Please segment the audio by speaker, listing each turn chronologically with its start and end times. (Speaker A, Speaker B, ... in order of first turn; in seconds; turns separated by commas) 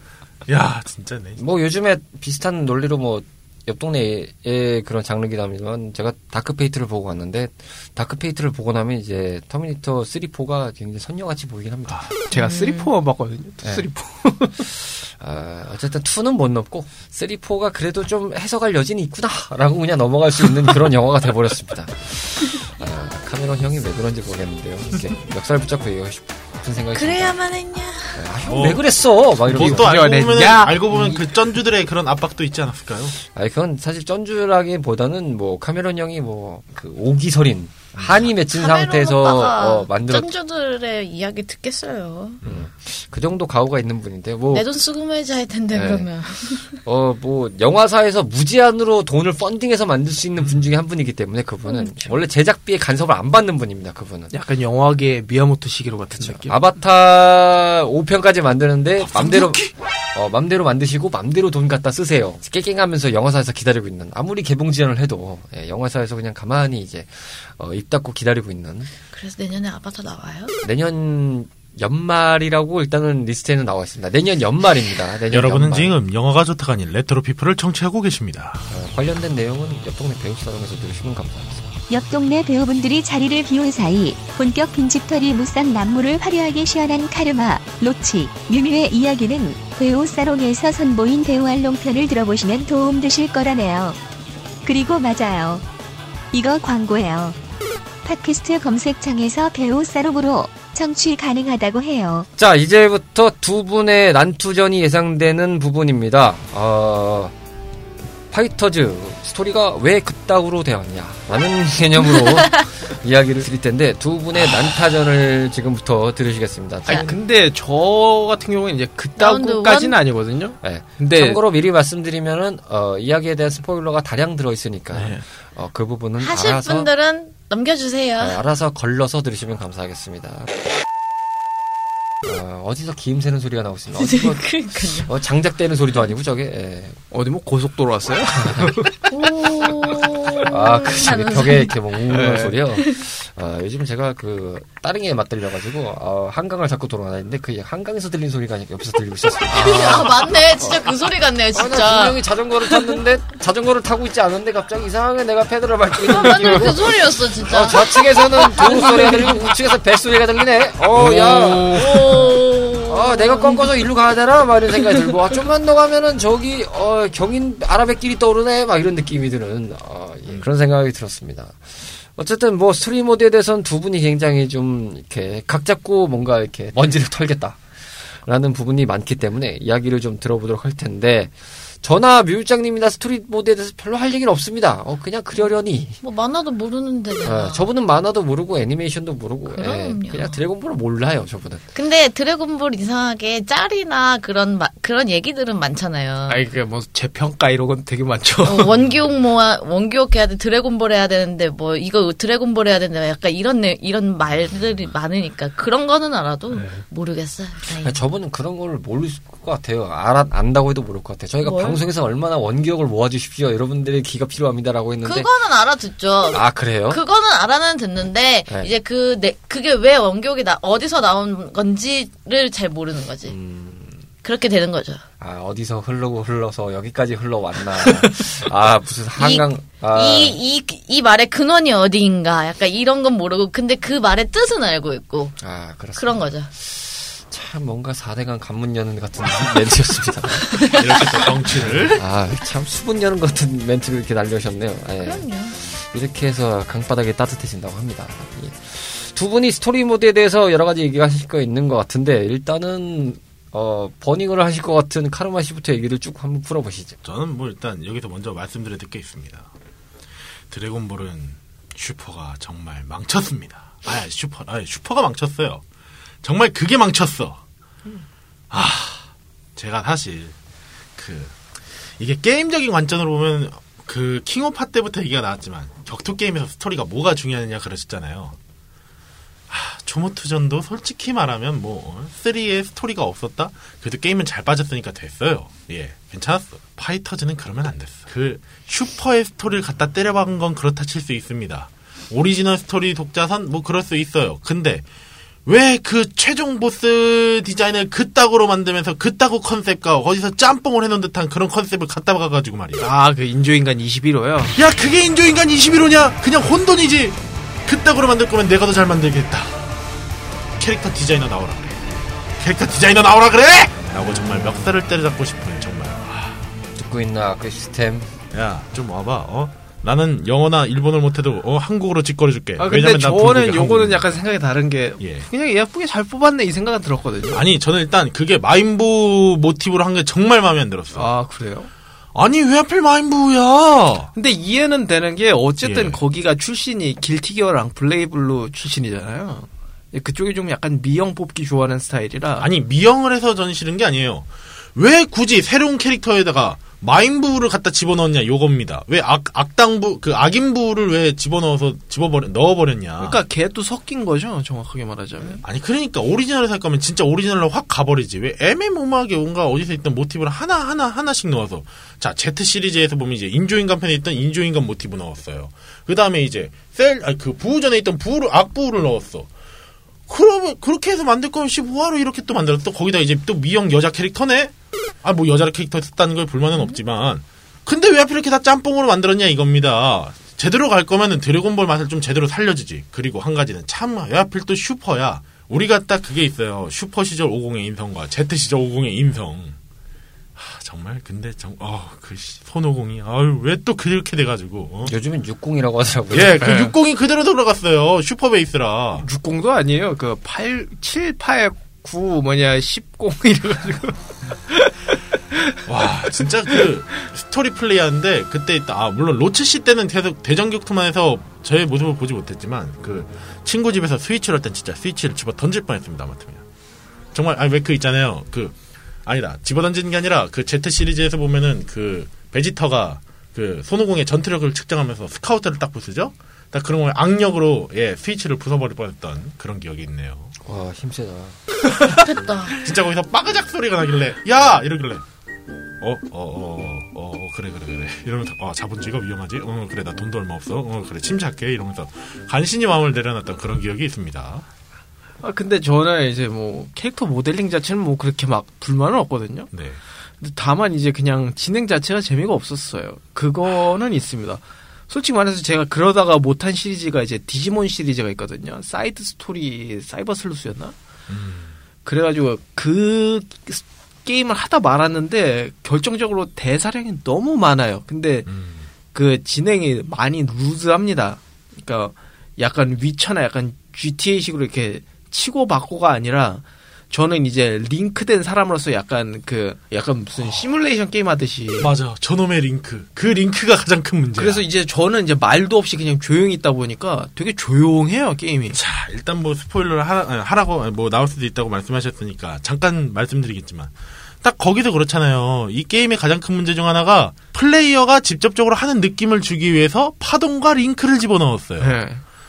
Speaker A: 0.5-1.4, Speaker B: 1.4-12.1, Speaker C: 12.3-12.9, Speaker D: 12.3-14.7, Speaker B: 15.0-27.4, Speaker C: 26.9-28.2, Speaker B: 28.1-29.9, Speaker A: 28.5-28.9, Speaker A: 29.5-33.2, Speaker D: 29.5-30.9, Speaker B: 30.9-31.2, Speaker B: 33.3-40.3, Speaker C: 38.5-42.4, Speaker B: 42.5-44.7, Speaker C: 44.5-46.8, Speaker B: 45.7-46.1, Speaker B: 46.6-54.3, Speaker C: 51.7-52.1, Speaker D: 54.3-56.5, Speaker B: 56.2-68.9, Speaker A: 59.0-59.7, Speaker C: 69.1-70.5, Speaker B: 70.6-75.9, Speaker A: 75.3-78.7, Speaker B: 78.7-81.8, Speaker E: 81.9-94.0, Speaker E: 94.7-95.7, Speaker E: 96.3-97.4, Speaker E: 98.0-102.3, Speaker B: 102.4-107.3, Speaker B: 108.3-117.2, Speaker D: 116.9-121.4, Speaker C: 119.2-120.0, Speaker B: 120.6-126.9, Speaker D: 124.9-125.2, Speaker C: 126.2-128.4, Speaker B: 128.2-130.5, Speaker B: 132.2-137.0, Speaker C: 134.0-135.1, Speaker D: 137.1-139.0, Speaker B: 138.4-138.8, Speaker C: 139.1-141.7, Speaker B: 140.5-162.3, Speaker D: 142.1-142.6, Speaker D: 149.5-150.1, Speaker C: 149.5-153.0, Speaker C: 156.0-159.4, Speaker D: 160.9-162.2, Speaker C: 161.7-163.7, Speaker B: 162.9-177.6, Speaker B: 178.2-186.0, Speaker C: 185.4-187.7, Speaker B: 187.2-191.7, Speaker C: 189.5-190.4, Speaker C: 191.8-196.4, Speaker D: 196.3-198.7, Speaker C: 198.4-208.0, Speaker D: 206.5-206.8, Speaker B: 207.8-215.3, Speaker C: 211.4-211.8, Speaker C: 215.0-223.3, Speaker B: 216.3-217.0, Speaker B: 223.3-224.0, Speaker C: 224.2-225.0, Speaker B: 225.2-230.4, Speaker C: 229.2-235.4, Speaker B: 235.4-257.0, Speaker C: 235.9-236.5, Speaker C: 240.5-241.0, Speaker A: 240.6-242.0, Speaker C: 245.0-245.6, Speaker A: 257.0-259.5, Speaker A: 260.5-265.6, Speaker A: 266.2-267.4, Speaker A: 268.5-270.4, Speaker A: 271.0-271.4, Speaker A: 272.0-278.4, Speaker A: 279.5-294.9, Speaker A: 295.5-302.9, Speaker D: 302.8-304.6, Speaker A: 304.6-309.7, Speaker A: 310.6-311.9, Speaker A: 312.4-316.4, Speaker B: 316.8-318.1, Speaker A: 318.3-324.2, Speaker D: 322.6-327.4, Speaker A: 325.0-325.3, Speaker A: 327.3-331.1, Speaker D: 330.9-331.7, Speaker A: 332.1-334.1, Speaker D: 334.1-342.5, Speaker A: 335.6-336.0, Speaker A: 342.4-353.2, Speaker D: 353.0-355.4, Speaker A: 355.4-369.3, Speaker A: 370.1-389.6, Speaker A: 390.4-394.9, Speaker B: 394.9-396.4, Speaker A: 396.1-399.1, Speaker D: 396.4-396.7, Speaker D: 399.0-405.4, Speaker A: 405.7-416.4, Speaker A: 417.1-418.6, Speaker A: 419.1-430.3, Speaker B: 430.4-431.4, Speaker C: 431.9-432.7, Speaker A: 432.6-435.0, Speaker A: 435.8-444.5, Speaker D: 445.2-449.5, Speaker A: 449.5-449.8, Speaker D: 450.2-460.8, Speaker A: 461.1-461.6, Speaker D: 461.9-468.3, Speaker A: 468.3-468.7, Speaker D: 468.9-481.7, Speaker A: 481.6-484.4, Speaker D: 484.2-488.6, Speaker A: 488.5-501.8, Speaker D: 501.6-502.0